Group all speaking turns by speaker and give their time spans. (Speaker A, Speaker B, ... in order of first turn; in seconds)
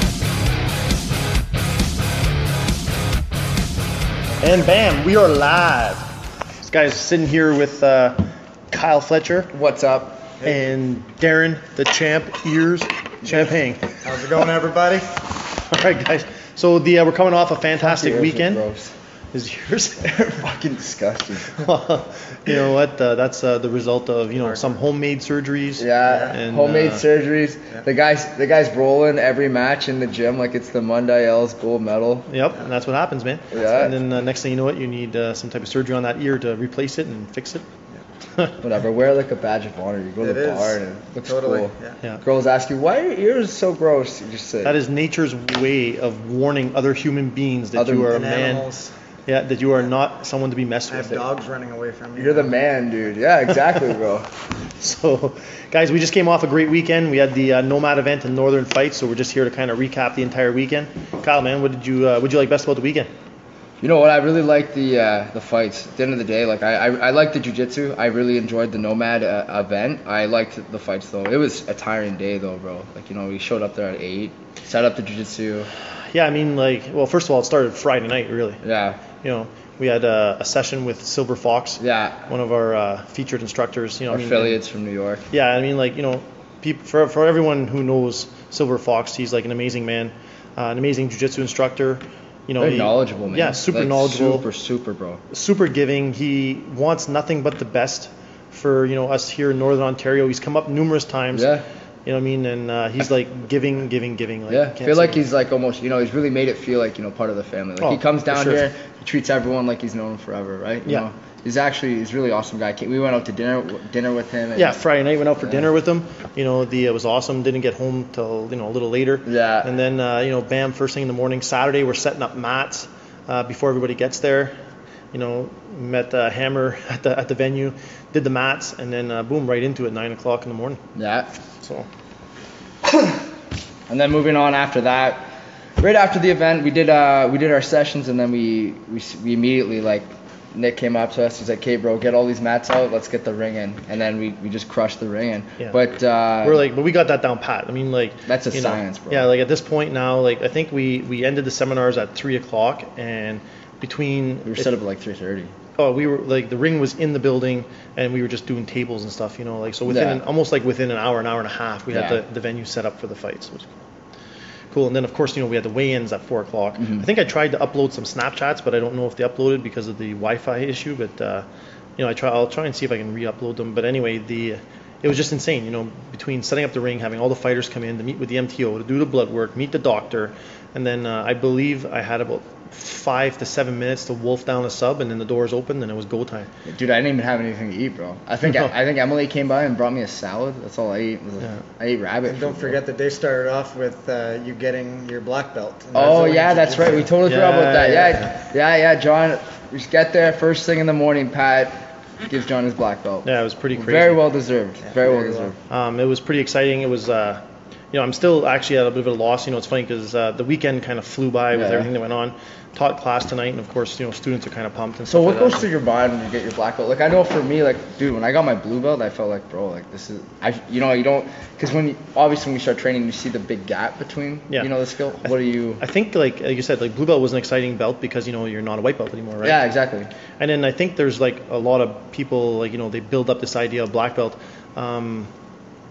Speaker A: 4.4-6.1, 6.6-9.5, 10.4-14.0, 15.6-18.6, 19.3-20.2, 21.6-27.1, 32.3-37.6, 44.6-48.7, 49.3-51.2, 54.8-63.1, 76.1-84.6, 85.3-94.5, 95.3-105.2, 107.8-108.6, 114.5-124.5, 125.1-130.8, 131.6-131.9, 146.4-154.7, 155.8-163.8, 164.7-171.5, 172.0-186.5, 197.2-198.3, 203.2-204.2, 205.7-215.7, 225.8-229.6, 230.4-235.3
Speaker B: 9.5-10.3, 17.8-18.9, 20.0-21.7, 25.8-32.3, 33.5-34.0, 38.6-44.8, 47.8-48.1, 52.2-54.3, 63.8-75.7, 78.6-79.0, 81.8-82.3, 84.1-85.3, 92.6-95.2, 101.3-101.7, 104.5-114.8, 115.4-115.7, 119.2-119.7, 130.9-131.3, 133.9-135.3, 135.8-146.6, 148.3-149.3, 154.5-155.5, 159.9-160.2, 161.9-162.2, 166.8-167.1, 186.7-192.8, 195.9-205.6, 211.5-211.9, 215.1-225.8, 229.4-230.1
Speaker C: 14.0-15.1, 40.2-42.0, 48.1-48.9, 50.9-52.5, 192.3-197.1, 204.8-205.5